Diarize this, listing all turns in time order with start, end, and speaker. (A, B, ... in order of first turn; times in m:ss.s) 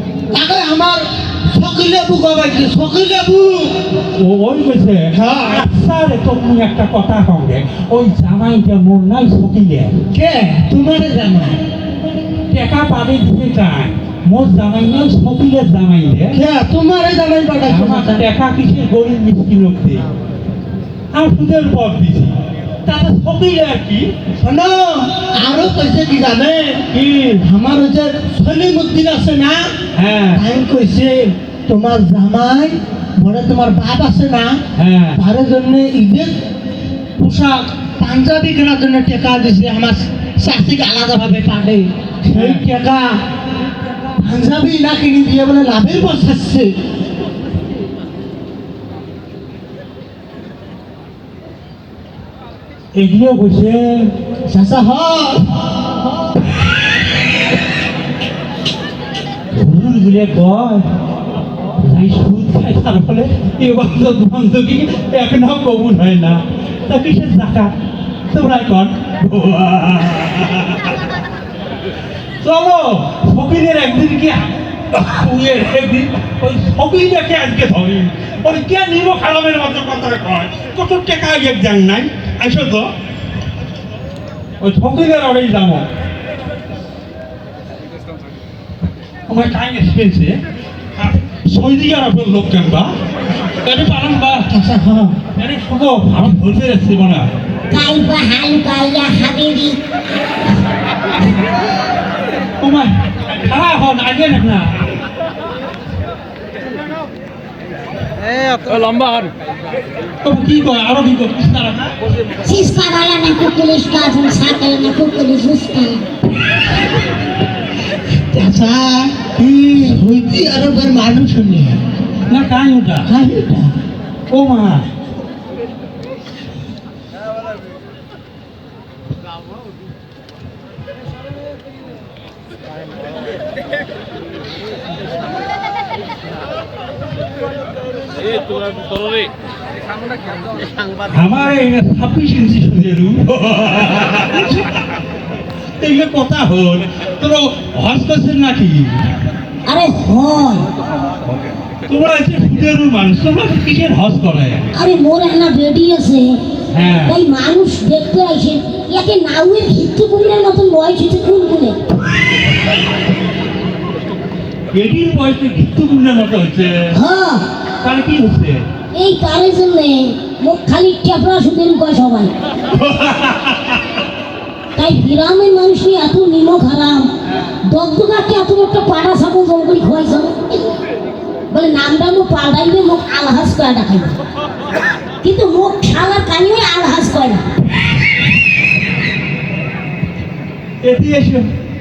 0:00.3-0:03.8 A
0:04.1-0:10.0 B
0:05.1-0:05.6 A
0:10.1-0:11.6 A
0:12.5-0:16.4 B
0:16.3-0:18.2 A
0:17.7-0:20.0 B
0:21.1-0:24.1 B
0:24.4-0:26.8 A
0:26.9-0:27.4 B
0:27.4-0:29.7 A
0:29.9-0:30.4 B
0:30.4-0:34.6 A
0:34.7-0:35.2 B
0:35.2-0:36.4 A
0:37.2-0:43.2 A
0:42.3-0:42.6 B
0:44.2-0:46.7 A
0:52.9-0:54.1 B
0:54.5-0:55.5 A
0:59.5-1:00.8 B
1:01.8-1:07.7 B
1:08.3-1:11.0 B
1:12.4-1:22.9 B
1:24.6-1:25.9 B
1:29.3-1:30.4 B
1:31.0-1:32.9 B
1:33.6-1:34.5 B
1:34.5-1:35.2 A
1:35.4-1:37.3 B
1:37.7-1:39.8 C
1:42.6-1:44.8 B
1:50.2-1:52.0 B
1:52.4-1:56.0 C
1:58.3-1:59.2 A
1:59.4-2:00.0 B
1:59.7-2:01.8 A
2:02.3-2:03.1 B
2:03.0-2:03.7 A
2:04.3-2:04.9 B
2:21.1-2:24.6 B
2:25.8-2:29.2 B
2:29.6-2:30.6 C
2:31.9-2:34.7 B
2:34.7-2:36.4 C
2:36.7-2:37.2 B
2:37.0-2:41.8 C
2:44.7-2:47.0 B
2:46.9-2:47.5 C
2:47.8-2:48.7 B
2:48.9-2:52.3 C
2:52.7-2:53.8 B
2:54.7-2:57.1 C
2:57.6-3:00.7 C
3:01.5-3:04.2 C
3:05.2-3:07.5 C
3:10.8-3:11.5 B